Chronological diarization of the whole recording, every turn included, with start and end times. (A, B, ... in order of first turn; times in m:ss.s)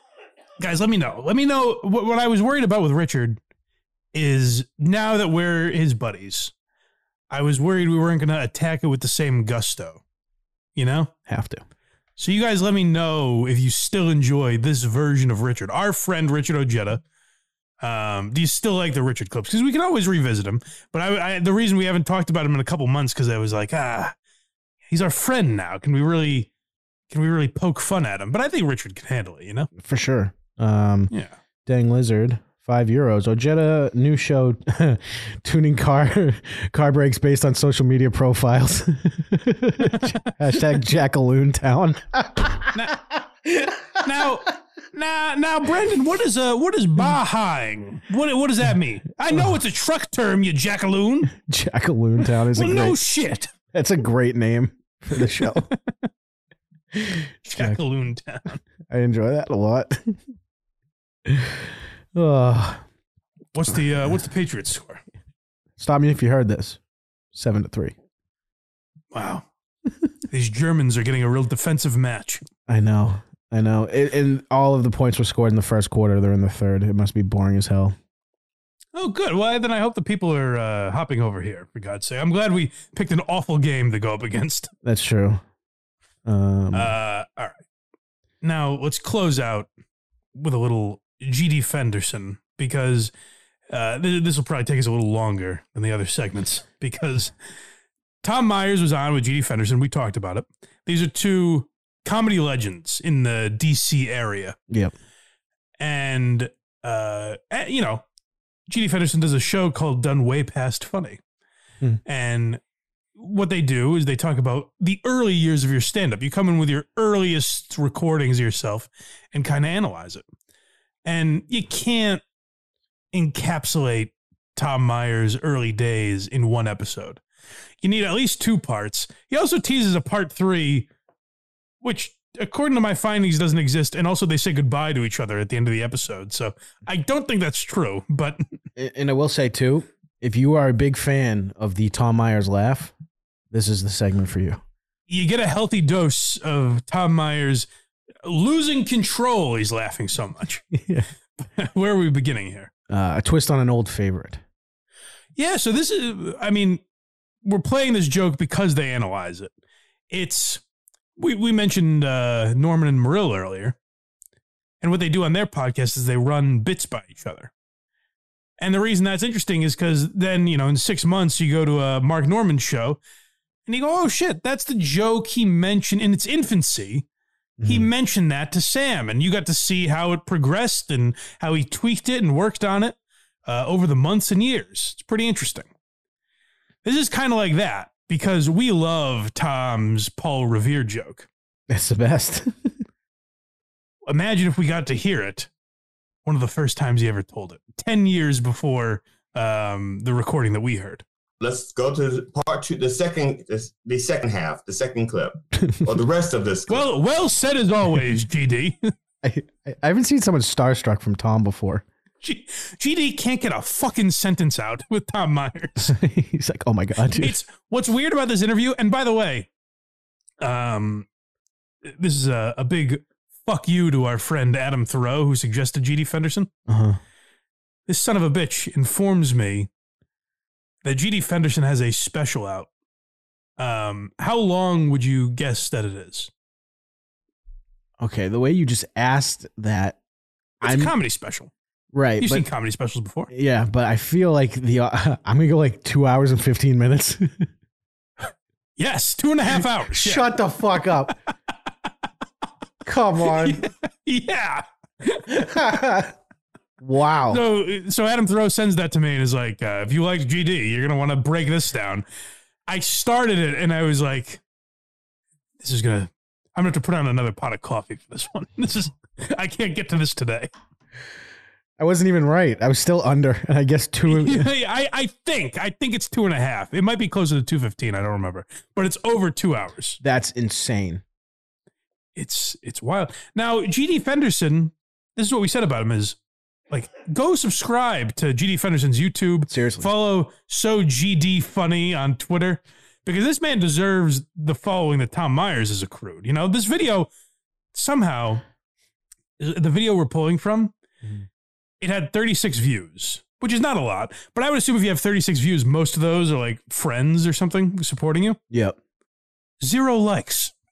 0:00.6-0:03.4 A
0:04.1-0:06.5 A
0:07.3-0:10.0 A
0:10.8-0:11.1 A
0:11.3-0:11.6 B
0:12.2-0:17.0 A
0:17.8-0:24.1 A
0:24.9-0:26.5 A
0:27.1-0:29.7 A
0:29.8-0:31.1 B
0:31.1-0:31.4 A
0:31.7-0:42.7 B
0:42.7-0:43.0 A
0:44.0-0:51.3 A
0:51.4-0:53.0 B
0:52.5-0:53.5 A
0:53.7-0:55.7 B
0:55.4-0:55.7 A
0:56.9-0:57.8 B
0:57.4-0:58.6 A
0:58.9-1:00.2 B
1:01.3-1:01.6 B
1:02.2-1:02.8 B
1:03.5-1:05.0 A
1:05.8-1:06.8 B
1:07.3-1:07.9 B
1:09.1-1:09.4 A
1:10.3-1:12.4 A
1:12.7-1:18.0 B
1:18.9-1:24.7 A
1:24.8-1:25.4 B
1:26.3-1:26.9 B
1:26.7-1:27.6 A
1:28.4-1:29.7 A
1:30.3-1:33.1 A
1:33.7-1:37.3 A
1:38.2-1:44.6 A
1:45.8-1:48.0 A
1:48.7-1:51.2 A
1:52.1-1:52.6 A
1:53.2-2:00.2 A
2:01.0-2:02.2 A
2:03.1-2:07.2 A
2:07.8-2:10.9 A
2:11.8-2:18.4 A
2:18.8-2:22.9 B
2:23.5-2:24.6 B
2:25.1-2:27.7 A
2:28.2-2:30.6 A
2:30.7-2:31.1 B
2:31.4-2:32.7 A
2:32.9-2:34.4 B
2:35.4-2:36.8 A
2:37.4-2:39.5 A
2:40.1-2:40.6 A
2:41.2-2:43.8 A
2:44.8-2:47.5 A
2:48.6-2:53.0 A
2:53.7-2:57.1 A
2:57.6-2:57.9 B
2:57.6-3:05.7 A
3:06.8-3:11.3 A
3:11.7-3:12.7 B
3:14.1-3:15.5 A
3:16.2-3:21.0 A
3:21.4-3:26.9 C
3:26.7-3:28.9 A
3:29.2-3:31.8 B
3:32.2-3:35.9 A
3:35.8-3:37.4 B
3:37.1-3:39.5 A
3:40.4-3:41.1 A
3:41.8-3:46.5 A
3:46.7-3:47.0 B
3:47.9-3:49.7 A
3:50.8-3:52.7 A
3:53.6-3:56.3 A
3:58.0-4:00.0 B
4:00.6-4:01.5 A
4:00.6-4:00.9 B
4:01.9-4:02.5 B
4:02.2-4:03.3 A
4:03.3-4:07.5 B
4:08.8-4:10.3 A
4:09.9-4:11.1 B
4:12.8-4:13.7 B
4:13.2-4:15.5 A
4:15.3-4:16.1 B
4:16.8-4:17.4 B
4:17.3-4:22.0 A
4:22.7-4:24.4 A
4:25.6-4:30.5 A
4:31.8-4:34.5 B
4:34.1-4:40.0 A
4:40.0-4:41.0 B
4:42.2-4:46.2 A
4:46.7-4:57.1 A
4:49.5-4:49.9 B
4:57.7-4:58.4 A
4:59.4-5:00.7 A
5:01.8-5:08.4 A
5:08.5-5:08.8 B
5:09.6-5:10.5 A